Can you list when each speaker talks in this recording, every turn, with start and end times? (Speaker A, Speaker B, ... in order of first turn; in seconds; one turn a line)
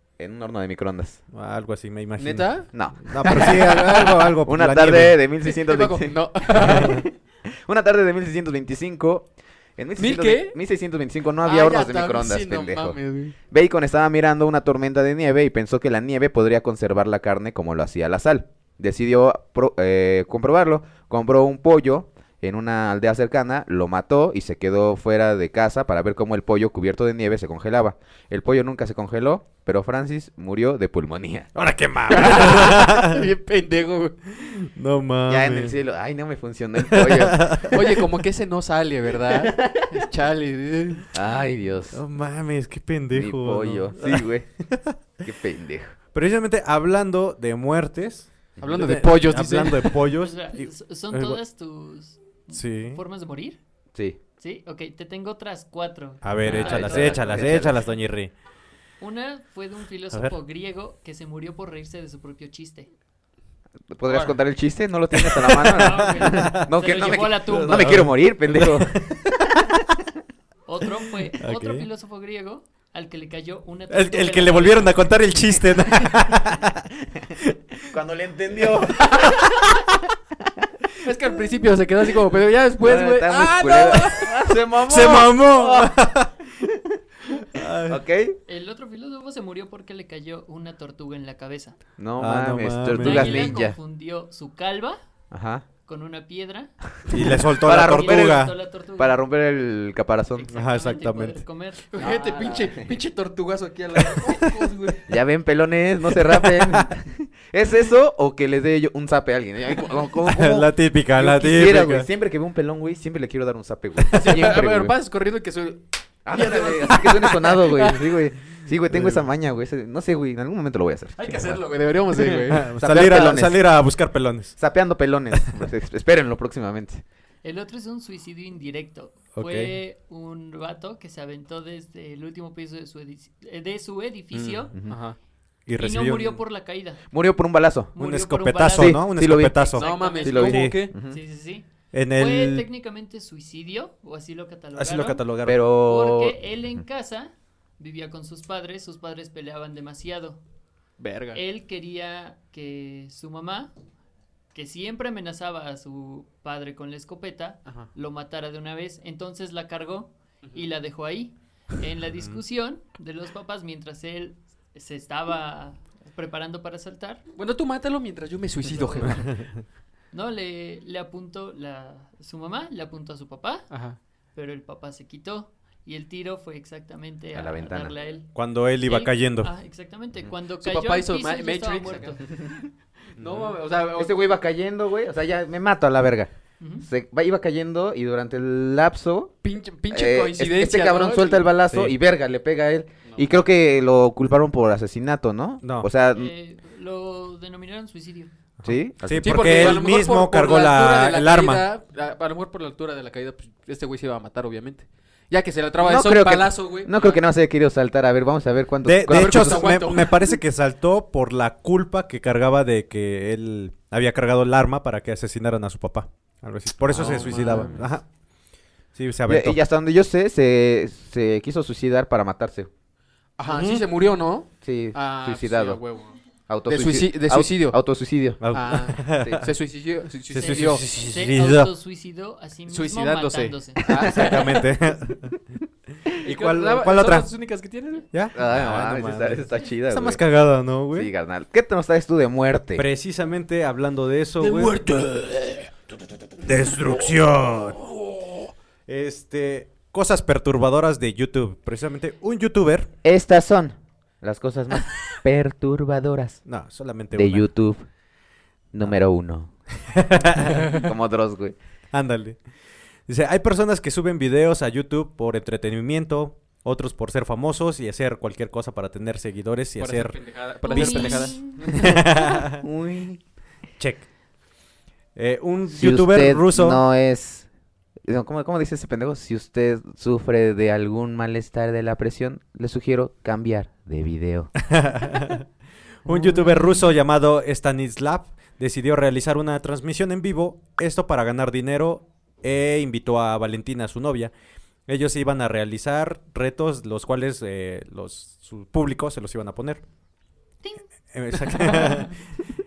Speaker A: 0.2-1.2
Speaker B: 1.3-5.2
Speaker C: 2.2-4.3
Speaker A: 2.7-7.1
Speaker C: 5.4-7.0
Speaker B: 6.6-7.0
Speaker A: 7.6-31.5
Speaker C: 10.0-10.6
Speaker C: 11.4-13.3
Speaker B: 31.5-33.3
Speaker C: 32.1-34.1
Speaker B: 34.3-35.8
Speaker A: 35.3-37.8
Speaker B: 36.8-37.8
Speaker C: 37.7-41.1
Speaker A: 41.1-42.0
Speaker B: 41.9-45.0
Speaker A: 43.1-44.5
Speaker A: 45.2-46.0
Speaker B: 46.1-51.4
Speaker C: 48.6-50.0
Speaker D: 50.1-53.6
Speaker B: 52.5-53.0
Speaker A: 53.9-54.2
Speaker D: 54.4-57.9
Speaker B: 56.2-58.3
Speaker A: 56.5-57.7
Speaker D: 59.0-62.9
Speaker A: 63.9-69.7
Speaker D: 64.1-64.3
Speaker B: 65.1-66.7
Speaker D: 65.7-68.0
Speaker B: 67.4-69.2
Speaker D: 70.7-75.1
Speaker B: 71.4-71.8
Speaker B: 73.9-77.5
Speaker A: 77.9-79.4
Speaker C: 79.0-79.4
Speaker C: 81.0-84.3
Speaker A: 82.8-86.0
Speaker B: 84.9-86.3
Speaker B: 87.4-88.0
Speaker A: 87.9-88.3
Speaker D: 88.5-91.8
Speaker A: 92.0-93.8
Speaker B: 92.2-93.5
Speaker D: 92.9-95.0
Speaker A: 95.3-95.6
Speaker D: 95.8-96.7
Speaker A: 97.1-100.5
Speaker B: 97.1-98.5
Speaker D: 97.7-99.2
Speaker D: 100.3-102.6
Speaker B: 100.5-101.4
Speaker C: 101.9-105.1
Speaker A: 102.4-102.9
Speaker A: 105.1-114.9
Speaker B: 106.2-106.9
Speaker B: 110.2-112.1
Speaker B: 114.1-114.4
Speaker C: 114.1-118.0
Speaker A: 116.2-121.6
Speaker B: 118.9-119.3
Speaker C: 121.2-122.7
Speaker B: 122.4-124.6
Speaker A: 122.7-123.6
Speaker A: 124.6-127.0
Speaker B: 125.4-125.7
Speaker D: 127.4-134.7
Speaker B: 129.3-129.7
Speaker B: 134.3-134.6
Speaker C: 134.9-135.2
Speaker B: 135.7-136.4
Speaker D: 135.8-137.0
Speaker A: 137.1-137.9
Speaker D: 137.9-139.1
Speaker B: 138.0-139.8
Speaker A: 138.7-141.2
Speaker D: 139.6-150.4
Speaker C: 139.8-140.9
Speaker B: 140.4-140.9
Speaker B: 141.9-142.7
Speaker B: 144.8-145.6
Speaker A: 145.4-146.4
Speaker C: 151.0-151.4
Speaker D: 151.3-153.7
Speaker D: 154.5-167.2
Speaker B: 162.1-162.4
Speaker C: 167.3-169.3
Speaker D: 168.6-169.3
Speaker D: 170.1-173.7
Speaker C: 173.7-174.0
Speaker D: 174.3-178.3
Speaker A: 177.3-177.9
Speaker B: 178.3-179.5
Speaker D: 178.8-182.2
Speaker C: 180.6-182.3
Speaker C: 183.2-184.2
Speaker A: 183.9-186.3
Speaker D: 186.6-186.9
Speaker A: 186.8-189.3
Speaker C: 189.4-191.5
Speaker A: 189.9-196.3
Speaker B: 191.7-191.9
Speaker C: 193.0-193.4
Speaker B: 195.6-195.9
Speaker D: 196.1-198.3
Speaker B: 198.6-201.7
Speaker A: 198.6-199.8
Speaker C: 199.2-207.2
Speaker A: 205.8-209.9
Speaker B: 208.8-218.1
Speaker C: 209.1-210.3
Speaker C: 216.9-217.8
Speaker A: 217.0-217.8
Speaker B: 218.9-219.6
Speaker A: 219.3-222.7
Speaker C: 223.4-227.8
Speaker B: 223.5-223.8
Speaker A: 224.6-225.8
Speaker A: 226.5-228.4
Speaker B: 228.4-229.5
Speaker C: 228.5-230.8
Speaker A: 229.2-229.4
Speaker B: 230.3-231.7
Speaker D: 230.3-233.8
Speaker C: 232.7-234.6
Speaker B: 234.1-235.3
Speaker B: 236.2-237.3
Speaker C: 236.2-238.1
Speaker B: 238.1-241.1
Speaker A: 238.3-240.2
Speaker A: 240.9-242.9
Speaker B: 242.7-244.8
Speaker C: 244.4-245.7
Speaker B: 246.4-247.8
Speaker C: 248.0-248.4
Speaker B: 248.9-252.9
Speaker A: 253.0-256.4
Speaker B: 256.4-257.5
Speaker A: 257.1-257.9
Speaker A: 258.7-259.5
Speaker B: 259.9-260.7
Speaker A: 260.7-261.6
Speaker B: 261.9-262.4
Speaker B: 263.1-272.6
Speaker C: 269.8-271.8
Speaker D: 270.7-271.6
Speaker A: 271.8-273.2
Speaker B: 273.8-274.1
Speaker B: 275.1-276.8
Speaker A: 275.7-277.5
Speaker A: 278.1-284.5
Speaker B: 284.6-285.4
Speaker B: 286.0-294.3
Speaker B: 294.9-299.8
Speaker B: 301.1-302.2
Speaker D: 301.7-302.0